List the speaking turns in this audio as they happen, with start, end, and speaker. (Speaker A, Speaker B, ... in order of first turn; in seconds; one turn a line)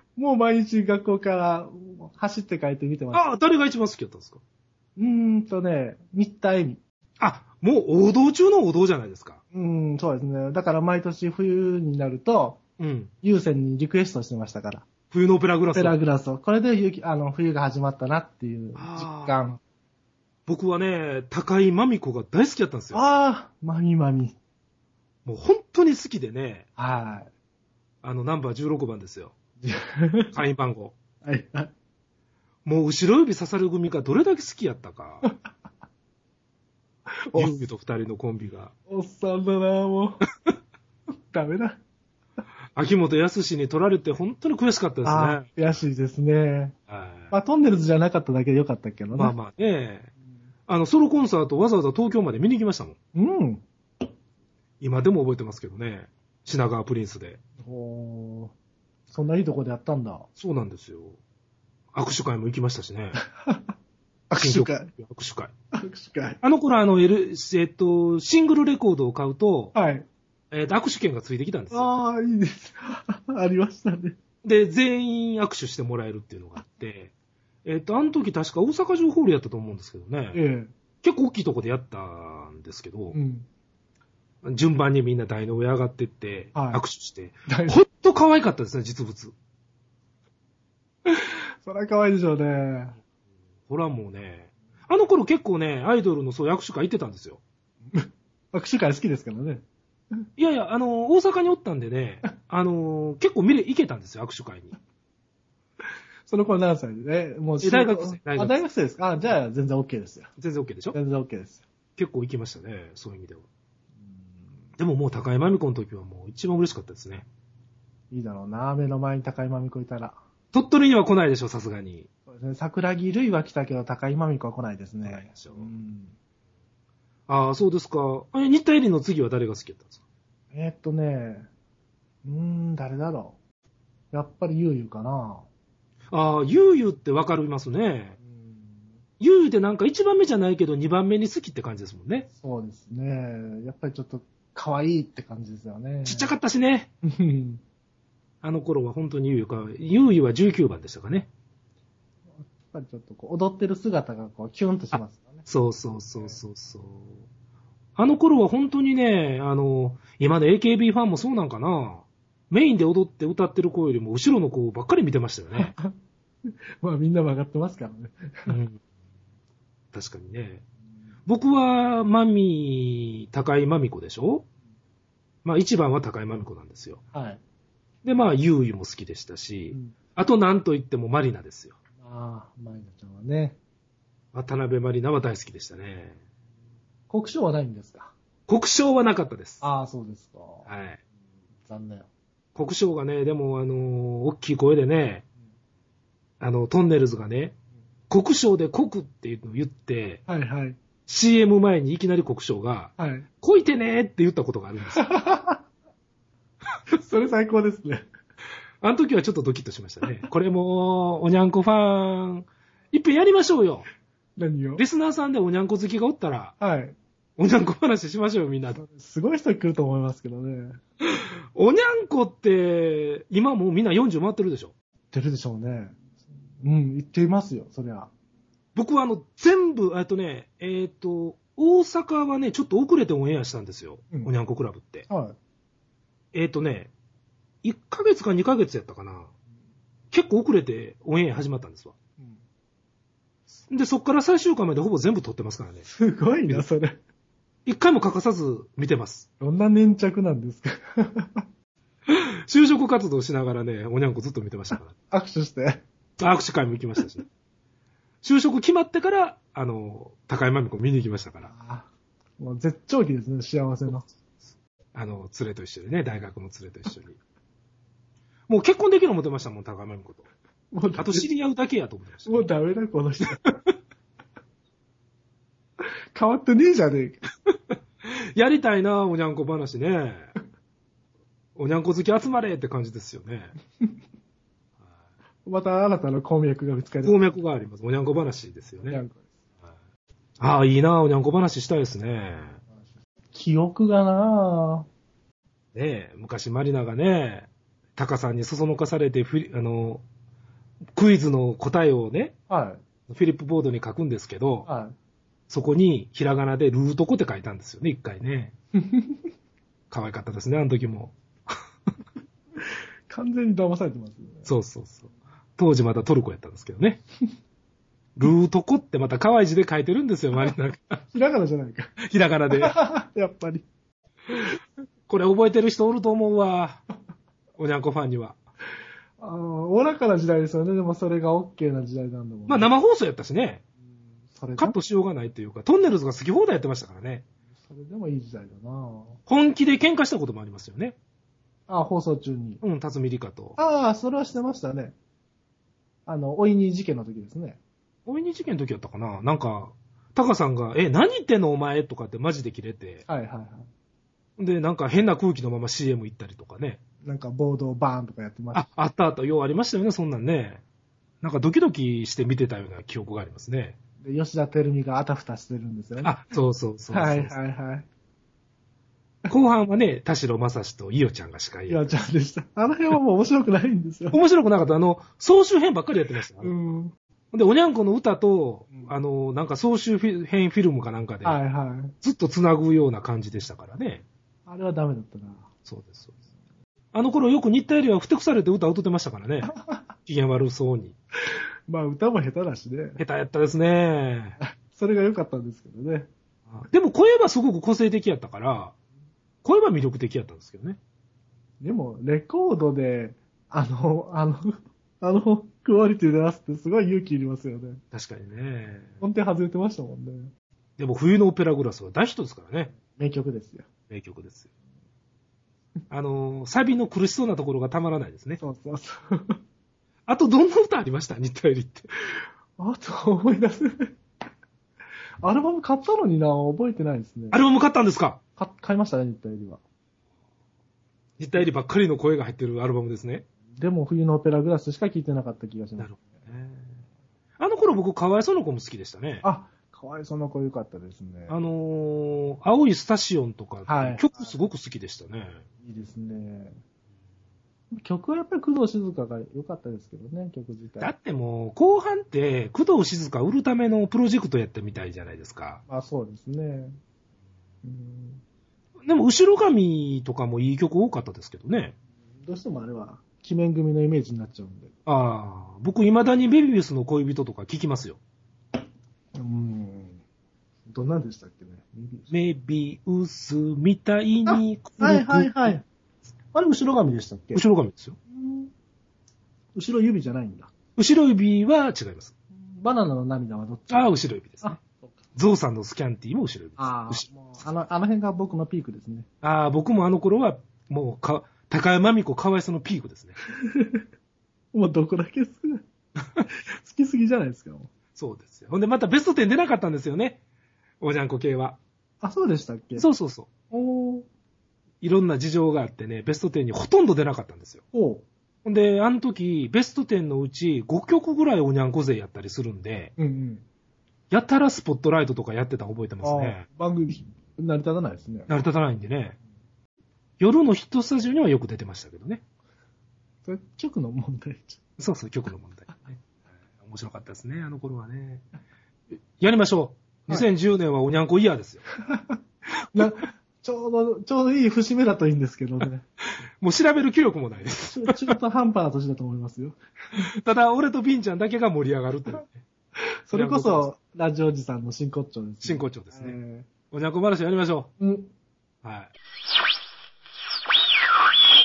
Speaker A: 0.1-3.3
Speaker B: 3.1-4.4
Speaker A: 5.0-6.8
Speaker B: 7.2-9.4
Speaker A: 9.5-12.6
Speaker B: 12.8-13.1
Speaker A: 13.2-14.9
Speaker B: 15.1-16.0
Speaker A: 15.7-19.6
Speaker B: 18.8-19.4
Speaker B: 20.5-23.0
Speaker A: 22.9-24.4
Speaker B: 25.2-26.7
Speaker A: 26.8-27.3
Speaker B: 28.0-29.3
Speaker A: 29.6-30.4
Speaker B: 30.3-30.9
Speaker A: 31.2-31.7
Speaker B: 32.6-35.3
Speaker A: 37.3-37.6
Speaker B: 37.3-38.7
Speaker A: 38.9-40.2
Speaker A: 41.3-41.8
Speaker B: 42.8-45.8
Speaker A: 45.0-46.8
Speaker B: 46.9-47.3
Speaker A: 47.3-49.4
Speaker B: 49.1-50.1
Speaker B: 50.7-53.0
Speaker A: 53.1-53.7
Speaker B: 54.8-57.4
Speaker A: 57.6-58.5
Speaker A: 59.1-60.3
Speaker B: 60.4-61.2
Speaker B: 61.9-63.2
Speaker A: 63.2-63.7
Speaker A: 64.3-64.9
Speaker B: 64.4-65.5
Speaker A: 65.7-66.4
Speaker B: 66.4-69.8
Speaker A: 69.7-70.1
Speaker B: 70.5-71.9
Speaker A: 71.7-74.2
Speaker B: 74.4-77.1
Speaker B: 77.7-80.4
Speaker A: 80.3-80.7
Speaker B: 81.0-83.2
Speaker A: 83.1-83.5
Speaker B: 84.4-89.3
Speaker A: 86.5-86.8
Speaker A: 87.5-87.8
Speaker A: 91.1-93.0
Speaker B: 93.7-97.4
Speaker A: 97.9-99.6
Speaker B: 100.4-104.8
Speaker A: 106.3-110.3
Speaker B: 107.6-108.6
Speaker B: 110.4-111.0
Speaker A: 110.9-111.6
Speaker B: 112.0-113.5
Speaker B: 114.8-117.3
Speaker A: 118.1-120.2
Speaker B: 120.5-122.1
Speaker A: 122.3-126.1
Speaker B: 125.0-125.8
Speaker B: 127.3-130.0
Speaker A: 130.5-131.5
Speaker A: 132.2-133.4
Speaker A: 134.1-135.5
Speaker B: 136.1-138.2
Speaker A: 138.3-138.9
Speaker B: 139.2-142.3
Speaker A: 142.3-146.3
Speaker B: 146.1-146.9
Speaker A: 147.0-147.6
Speaker B: 148.4-151.3
Speaker A: 152.4-155.5
Speaker B: 154.9-157.2
Speaker B: 158.0-165.7
Speaker A: 165.5-165.9
Speaker A: 166.8-168.6
Speaker B: 168.5-168.8
Speaker B: 169.9-170.6
Speaker B: 171.3-174.4
Speaker B: 175.4-177.0
Speaker A: 177.1-177.4
Speaker B: 178.0-181.8
Speaker A: 179.7-180.0
Speaker A: 182.0-183.6
Speaker B: 184.3-186.2
Speaker A: 187.1-188.1
Speaker B: 188.5-189.6
Speaker A: 189.6-190.7
Speaker B: 190.7-191.0
Speaker A: 191.6-192.1
Speaker B: 192.6-195.2
Speaker B: 196.4-197.6
Speaker B: 198.1-200.2
Speaker A: 200.3-200.8
Speaker B: 201.1-205.1
Speaker A: 203.0-203.3
Speaker A: 205.0-205.6
Speaker A: 206.9-208.1
Speaker B: 208.8-213.9
Speaker A: 214.4-214.8
Speaker B: 214.8-216.5
Speaker A: 216.6-217.0
Speaker B: 217.4-218.8
Speaker A: 218.8-220.8
Speaker B: 221.0-224.7
Speaker A: 225.1-226.0
Speaker A: 226.6-228.1
Speaker B: 228.8-235.1
Speaker A: 235.1-235.4
Speaker B: 236.3-236.9
Speaker B: 237.6-239.3
Speaker B: 240.1-241.9
Speaker B: 243.7-245.9
Speaker A: 245.9-247.0
Speaker B: 247.7-249.3
Speaker A: 249.4-251.4
Speaker B: 252.1-254.9
Speaker A: 255.1-255.8
Speaker B: 256.2-257.2
Speaker B: 258.2-261.5
Speaker A: 261.4-264.1
Speaker B: 264.9-267.2
Speaker B: 268.5-270.3
Speaker A: 270.7-271.3
Speaker B: 271.0-272.5
Speaker A: 272.3-273.5
Speaker A: 276.1-277.2
Speaker B: 277.7-280.3
Speaker B: 281.6-283.5
Speaker A: 285.4-287.4
Speaker B: 287.0-289.0
Speaker A: 288.9-289.2
Speaker B: 290.4-292.6
Speaker A: 292.8-294.9
Speaker B: 295.7-300.0
Speaker B: 300.9-302.4
Speaker A: 302.5-302.8
Speaker B: 303.1-304.7
Speaker A: 304.6-305.0
Speaker B: 305.5-308.5
Speaker A: 308.8-309.2
Speaker B: 309.9-311.2
Speaker A: 313.1-314.5
Speaker B: 314.5-317.0
Speaker B: 318.2-321.0
Speaker A: 321.1-321.9
Speaker B: 322.0-322.8
Speaker A: 322.5-323.7
Speaker B: 325.1-326.8
Speaker B: 327.6-328.4
Speaker A: 329.2-332.7
Speaker B: 332.5-333.6
Speaker A: 334.3-334.8
Speaker B: 334.6-337.3
Speaker A: 337.6-339.2
Speaker B: 339.3-341.0
Speaker A: 341.7-342.6
Speaker B: 342.6-343.6
Speaker A: 343.6-344.9
Speaker A: 346.1-347.6
Speaker B: 348.1-353.0
Speaker A: 353.1-353.7
Speaker B: 354.4-356.8
Speaker A: 357.0-358.7
Speaker B: 358.5-360.6
Speaker B: 361.2-363.8
Speaker A: 364.0-366.1
Speaker B: 366.0-367.4
Speaker A: 366.9-367.9
Speaker B: 369.3-371.9
Speaker A: 371.7-374.2
Speaker B: 374.1-376.5
Speaker A: 376.4-376.9
Speaker B: 377.3-381.4
Speaker A: 381.2-381.9
Speaker B: 382.0-384.1
Speaker A: 384.5-385.5
Speaker B: 385.7-386.1
Speaker B: 386.9-389.5
Speaker A: 389.5-389.9
Speaker B: 390.1-390.9
Speaker A: 391.7-393.0
Speaker B: 393.0-394.4
Speaker A: 394.4-396.1
Speaker B: 396.6-398.7
Speaker B: 399.4-400.8
Speaker A: 401.6-407.8
Speaker B: 407.9-408.9
Speaker A: 409.0-410.3
Speaker B: 410.8-412.7
Speaker A: 412.8-413.7
Speaker B: 413.9-414.5
Speaker B: 415.9-418.4
Speaker A: 418.4-419.4
Speaker B: 420.1-421.9
Speaker A: 422.6-423.9
Speaker A: 425.2-427.4
Speaker B: 427.3-428.2
Speaker A: 428.4-429.6
Speaker B: 431.2-433.3
Speaker A: 433.6-436.3
Speaker B: 435.8-436.7
Speaker B: 437.4-439.2
Speaker A: 439.2-441.4
Speaker B: 441.3-445.4
Speaker A: 443.7-444.4
Speaker A: 445.6-446.6
Speaker A: 447.7-450.9
Speaker B: 450.8-455.6
Speaker A: 455.7-456.8
Speaker A: 457.6-458.2
Speaker B: 458.9-461.8
Speaker A: 462.2-464.7
Speaker B: 464.9-468.0
Speaker A: 469.2-470.0
Speaker A: 470.7-472.1
Speaker B: 472.1-475.6
Speaker A: 474.3-475.6
Speaker A: 476.3-477.4
Speaker B: 477.4-478.0
Speaker A: 478.1-478.5
Speaker A: 479.5-480.5
Speaker B: 480.8-482.1
Speaker A: 482.4-484.9
Speaker B: 483.7-484.6
Speaker B: 485.1-487.3
Speaker A: 486.6-489.1
Speaker B: 489.2-493.2
Speaker A: 493.6-493.8
Speaker A: 494.5-495.6
Speaker A: 496.2-497.7
Speaker B: 497.9-500.2
Speaker B: 500.8-501.6
Speaker A: 502.0-502.9
Speaker B: 502.8-503.3
Speaker A: 503.5-504.1
Speaker B: 504.8-507.6
Speaker A: 507.7-508.1
Speaker B: 508.4-512.9
Speaker A: 513.0-513.4
Speaker B: 514.1-516.5
Speaker A: 516.0-518.3
Speaker B: 518.3-519.2
Speaker B: 520.2-522.2
Speaker A: 523.2-524.6
Speaker B: 524.8-526.0
Speaker B: 526.6-528.2
Speaker B: 529.2-531.6
Speaker A: 531.9-532.2
Speaker A: 532.7-535.9
Speaker B: 536.4-538.2
Speaker A: 537.7-539.6
Speaker B: 540.0-542.4
Speaker A: 543.1-546.5
Speaker B: 543.1-543.7
Speaker B: 545.4-546.2
Speaker B: 546.7-547.7
Speaker A: 547.8-548.1
Speaker B: 548.6-548.9